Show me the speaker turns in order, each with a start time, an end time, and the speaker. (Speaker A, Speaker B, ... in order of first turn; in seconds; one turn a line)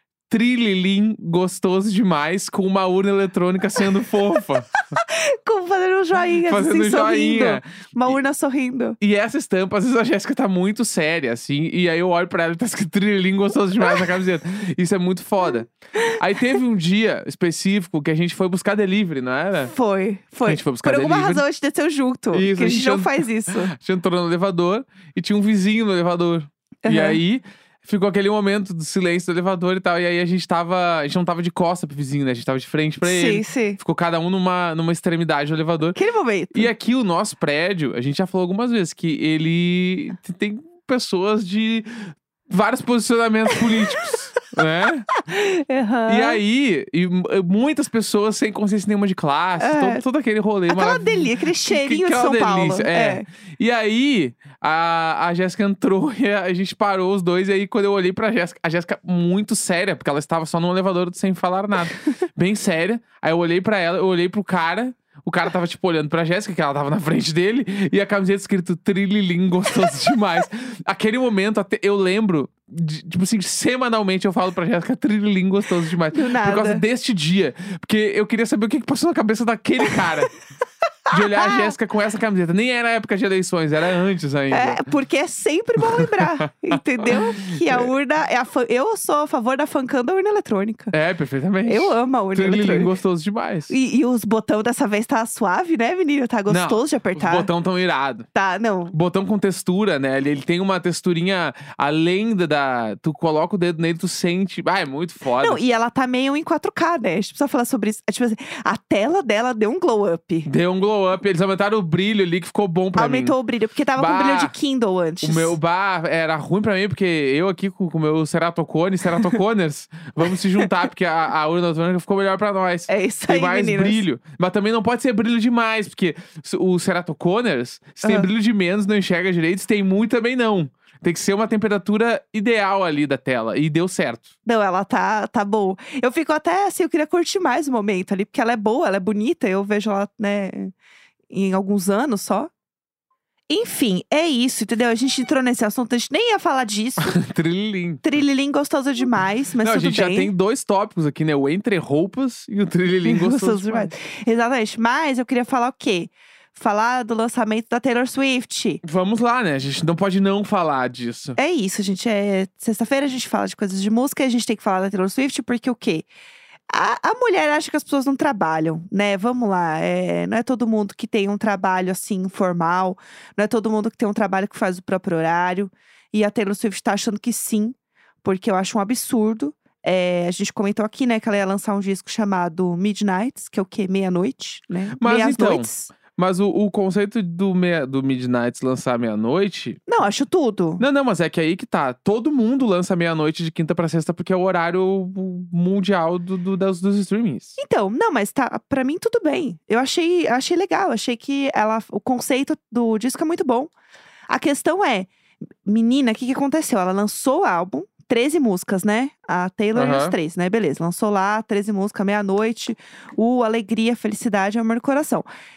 Speaker A: 0.3-4.7
Speaker B: 4.7-9.0
Speaker A: 6.5-8.2
Speaker A: 9.0-19.7
Speaker B: 19.6-23.7
Speaker A: 20.4-21.4
Speaker A: 22.3-36.0
Speaker B: 26.8-27.2
Speaker B: 33.0-33.8
Speaker B: 36.0-36.7
Speaker A: 36.5-45.1
Speaker B: 45.2-46.4
Speaker A: 46.1-80.3
Speaker B: 49.6-50.0
Speaker B: 50.7-53.2
Speaker B: 76.1-76.8
Speaker B: 81.1-81.7
Speaker A: 81.1-84.8
Speaker B: 84.5-90.9
Speaker A: 85.8-87.9
Speaker A: 90.9-93.7
Speaker B: 91.7-92.9
Speaker B: 93.7-97.5
Speaker A: 96.5-98.3
Speaker B: 98.3-99.0
Speaker A: 98.9-105.6
Speaker B: 105.4-110.5
Speaker A: 110.5-113.3
Speaker B: 113.0-115.6
Speaker A: 114.0-114.5
Speaker A: 115.2-134.3
Speaker B: 122.9-124.0
Speaker B: 134.4-140.7
Speaker B: 141.3-142.5
Speaker B: 143.5-147.2
Speaker A: 147.0-148.0
Speaker B: 148.0-150.3
Speaker A: 149.6-153.9
Speaker B: 153.0-158.8
Speaker A: 158.8-161.4
Speaker B: 161.4-166.1
Speaker B: 166.7-185.9
Speaker A: 185.0-189.8
Speaker B: 189.9-190.8
Speaker A: 190.8-197.6
Speaker B: 197.6-203.7
Speaker B: 204.3-205.1
Speaker B: 205.7-215.3
Speaker A: 209.8-210.2